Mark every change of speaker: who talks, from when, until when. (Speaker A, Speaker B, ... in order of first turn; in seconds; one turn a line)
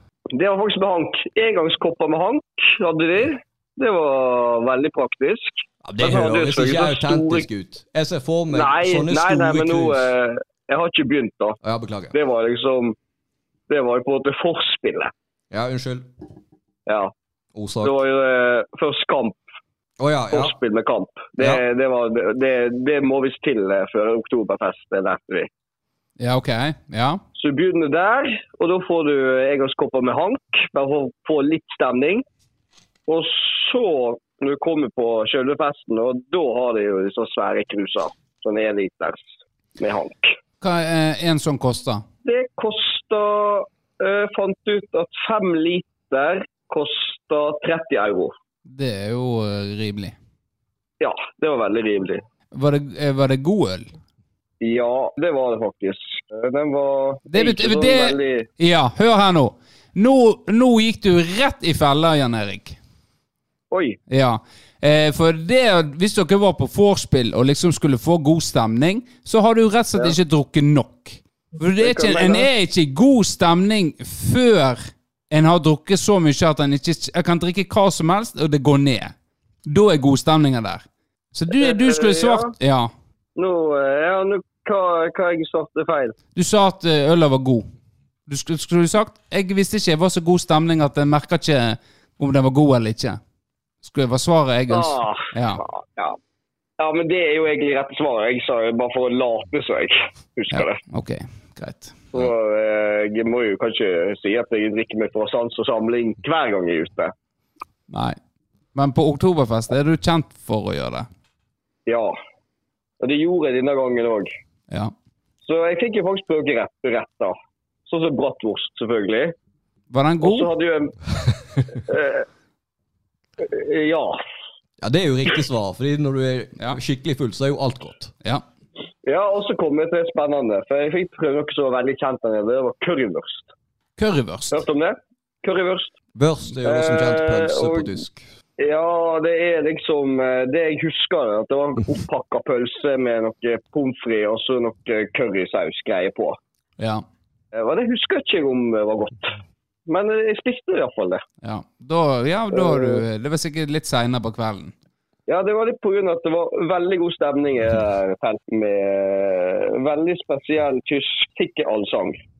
Speaker A: 0.3-7.5
Speaker B: 5.8-10.1
Speaker A: 8.5-11.6
Speaker B: 11.6-12.1
Speaker A: 12.1-12.9
Speaker A: 13.7-15.1
Speaker B: 15.5-16.1
Speaker A: 16.9-17.1
Speaker B: 17.5-18.0
Speaker A: 17.8-19.4
Speaker B: 20.0-20.5
Speaker A: 20.3-25.5
Speaker B: 21.4-21.6
Speaker C: 26.2-27.2
Speaker A: 27.4-32.2
Speaker A: 33.1-39.2
Speaker A: 39.8-40.3
Speaker C: 40.6-42.0
Speaker A: 42.2-48.3
Speaker C: 48.6-50.1
Speaker A: 51.0-52.2
Speaker C: 52.5-53.9
Speaker A: 54.6-58.5
Speaker C: 57.3-62.8
Speaker A: 63.7-64.0
Speaker C: 64.1-79.1
Speaker A: 71.8-72.5
Speaker C: 79.7-82.9
Speaker A: 81.5-82.5
Speaker A: 83.4-86.2
Speaker C: 86.3-87.7
Speaker C: 88.3-93.2
Speaker C: 93.8-95.6
Speaker A: 94.7-96.2
Speaker A: 96.8-100.8
Speaker C: 100.5-102.0
Speaker A: 102.1-107.1
Speaker C: 107.9-108.2
Speaker C: 108.7-111.1
Speaker A: 111.9-112.2
Speaker A: 113.0-114.3
Speaker A: 115.4-117.3
Speaker A: 117.9-119.3
Speaker C: 119.9-120.5
Speaker A: 120.2-122.2
Speaker A: 123.4-124.2
Speaker B: 124.8-128.1
Speaker A: 129.0-133.5
Speaker C: 134.0-134.6
Speaker A: 134.5-135.9
Speaker B: 136.1-138.3
Speaker A: 136.6-137.9
Speaker A: 138.6-146.4
Speaker C: 146.8-147.0
Speaker A: 147.5-149.3
Speaker A: 149.9-151.2
Speaker C: 151.4-154.7
Speaker A: 152.5-153.0
Speaker A: 155.3-162.2